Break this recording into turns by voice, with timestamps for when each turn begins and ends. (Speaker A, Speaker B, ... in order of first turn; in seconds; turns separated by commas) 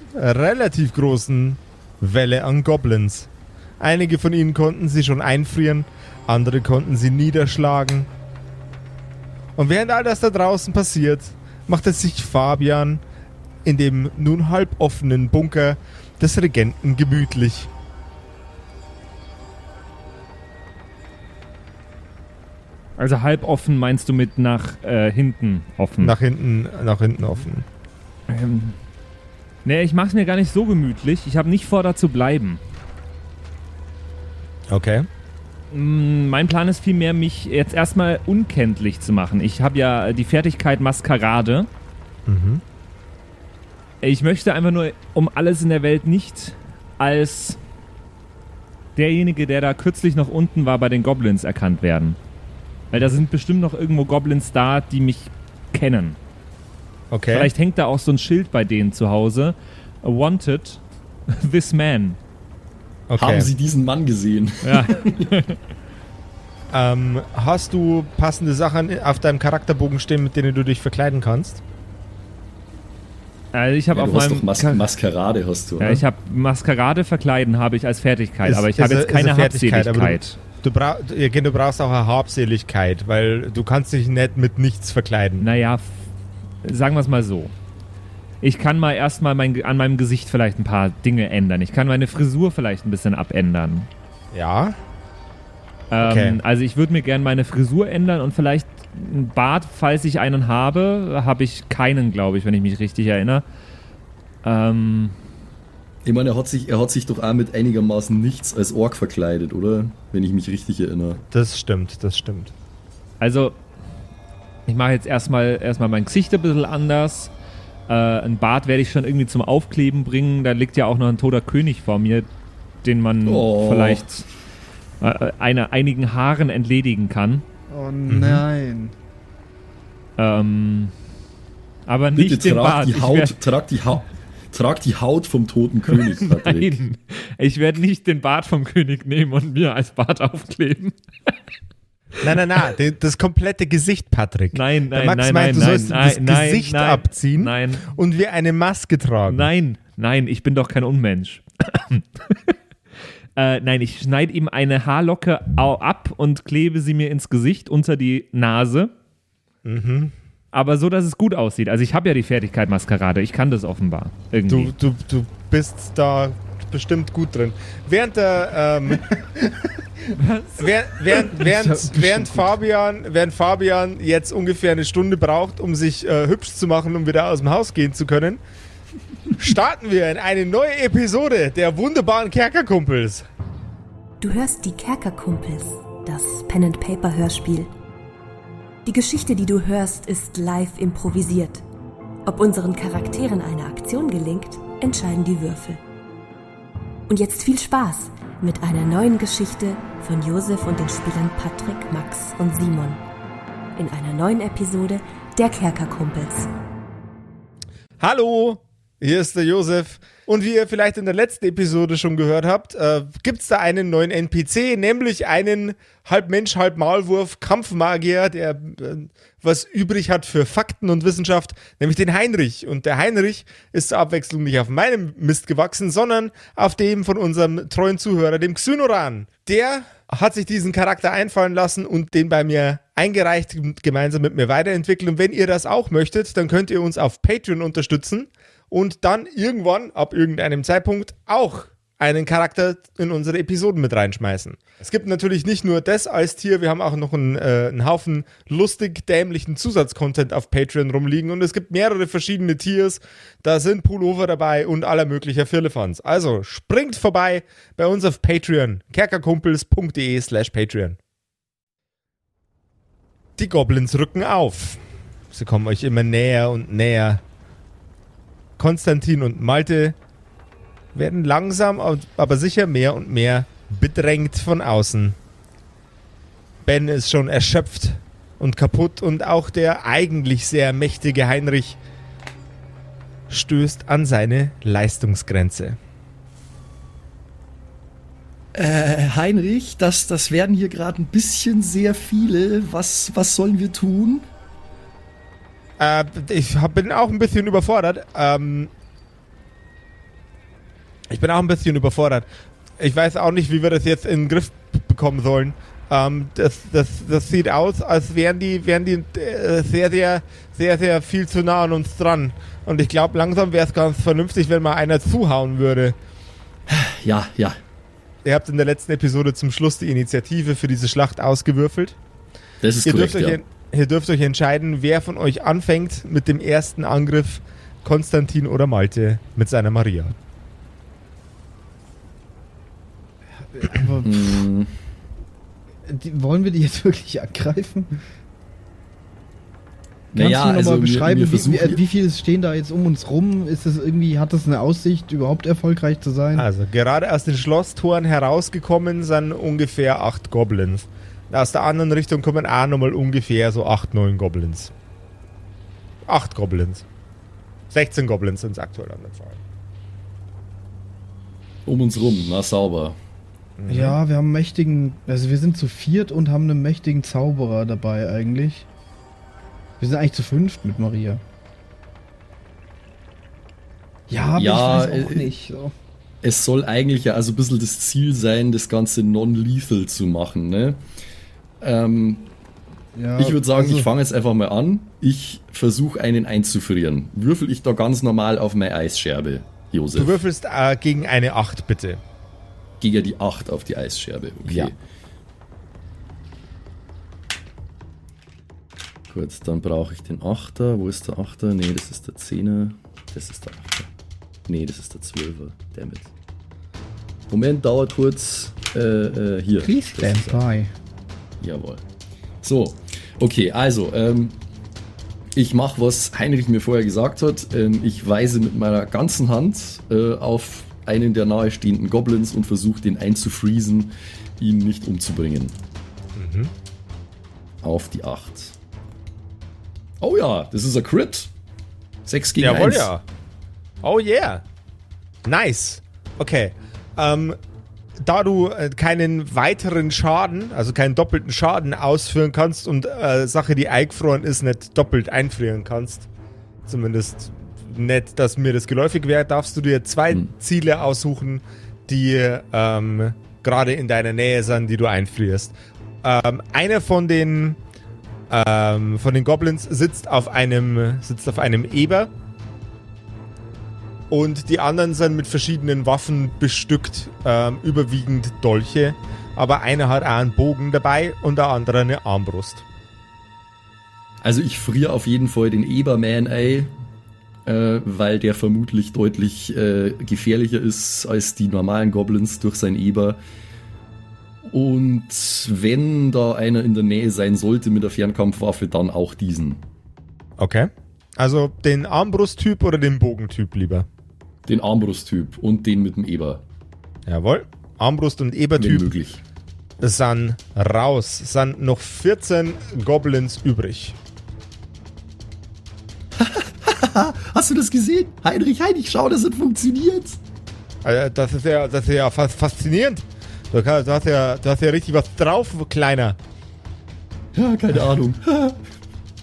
Speaker A: 0.1-3.3, Speaker A: 3.8-8.1, Speaker A: 9.6-13.0, Speaker A: 13.7-17.7, Speaker B: 23.0-26.2, Speaker A: 26.0-27.6, Speaker B: 28.3-28.8, Speaker B: 29.6-32.6, Speaker A: 34.7-35.1, Speaker B: 35.7-41.7, Speaker A: 42.3-42.6, Speaker B: 44.0-47.6, Speaker B: 49.0-52.2, Speaker B: 52.9-56.2, Speaker A: 57.1-57.5, Speaker B: 57.3-62.2, Speaker A: 63.1-63.5, Speaker C: 63.1-65.3, Speaker B: 64.6-65.6, Speaker A: 66.7-71.6, Speaker B: 73.5-74.9, Speaker C: 73.9-76.0, Speaker B: 75.8-80.4, Speaker A: 78.5-85.5, Speaker B: 85.4-86.0, Speaker B: 86.6-87.5, Speaker B: 88.4-93.9, Speaker A: 94.3-94.8, Speaker B: 95.9-103.4, Speaker A: 96.0-96.4, Speaker B: 104.4-105.2, Speaker C: 106.0-111.2, Speaker A: 111.3-112.5, Speaker B: 113.2-113.5, Speaker B: 114.7-117.3, Speaker B: 117.9-122.3, Speaker B: 122.8-124.2, Speaker C: 123.3-124.1, Speaker B: 125.0-127.4, Speaker D: 127.7-128.9, Speaker A: 128.1-128.4, Speaker B: 130.2-130.9, Speaker B: 131.9-133.4, Speaker C: 132.1-136.8, Speaker B: 135.9-141.3, Speaker A: 142.2-149.5, Speaker B: 144.5-147.9, Speaker B: 149.3-152.6, Speaker B: 153.4-158.9, Speaker A: 159.7-160.1, Speaker B: 160.5-164.7, Speaker A: 164.5-169.1, Speaker B: 170.2-171.3, Speaker A: 170.6-178.4, Speaker D: 171.3-172.6, Speaker A: 179.4-183.2, Speaker E: 184.2-187.7, Speaker E: 188.8-191.6, Speaker E: 192.3-195.8, Speaker E: 197.1-203.0, Speaker E: 203.8-206.5, Speaker A: 208.0-261.0, Speaker A: 263.4-264.8, Speaker A: 265.3-267.2, Speaker A: 268.6-270.0, Speaker A: 270.9-275.2, Speaker A: 276.6-281.8, Speaker A: 283.3-285.8, Speaker C: 288.6-294.3, Speaker A: 295.8-298.7, Speaker A: 301.1-302.3, Speaker A: 302.8-316.0, Speaker C: 316.7-317.6, Speaker A: 318.2-322.0, Speaker C: 322.6-323.4, Speaker A: 322.9-330.1, Speaker D: 333.5-334.4, Speaker C: 334.0-334.7, Speaker D: 335.9-338.0, Speaker D: 340.1-346.5, Speaker C: 340.1-341.8, Speaker A: 346.4-354.7, Speaker A: 356.1-356.8, Speaker A: 357.7-359.4, Speaker C: 361.6-363.0, Speaker A: 363.6-364.0, Speaker D: 363.7-368.7, Speaker D: 369.8-371.2, Speaker D: 374.1-375.7, Speaker C: 374.4-375.3, Speaker C: 376.2-380.8, Speaker C: 381.6-382.3, Speaker D: 382.9-383.9, Speaker C: 383.2-390.2, Speaker A: 389.9-392.0, Speaker C: 392.8-394.8, Speaker A: 394.5-394.7, Speaker C: 399.1-403.9, Speaker C: 404.5-406.1, Speaker C: 407.3-410.4, Speaker D: 409.6-410.7, Speaker C: 411.4-411.8, Speaker C: 412.4-414.4, Speaker C: 415.4-425.6, Speaker A: 426.2-426.5, Speaker C: 427.6-428.6, Speaker C: 430.0-431.3, Speaker C: 432.1-432.9, Speaker A: 432.4-433.0, Speaker A: 433.8-434.4, Speaker A: 435.2-437.4, Speaker A: 438.0-446.1, Speaker A: 446.7-457.6, Speaker A: 458.3-462.1, Speaker A: 464.1-472.6, Speaker C: 474.2-476.7, Speaker C: 477.5-483.2, Speaker C: 484.4-489.6, Speaker A: 490.4-493.9, Speaker C: 494.5-496.4, Speaker A: 497.1-498.9, Speaker C: 498.6-499.2, Speaker A: 499.8-504.0, Speaker C: 506.2-510.2, Speaker A: 510.9-516.2, Speaker C: 517.3-518.6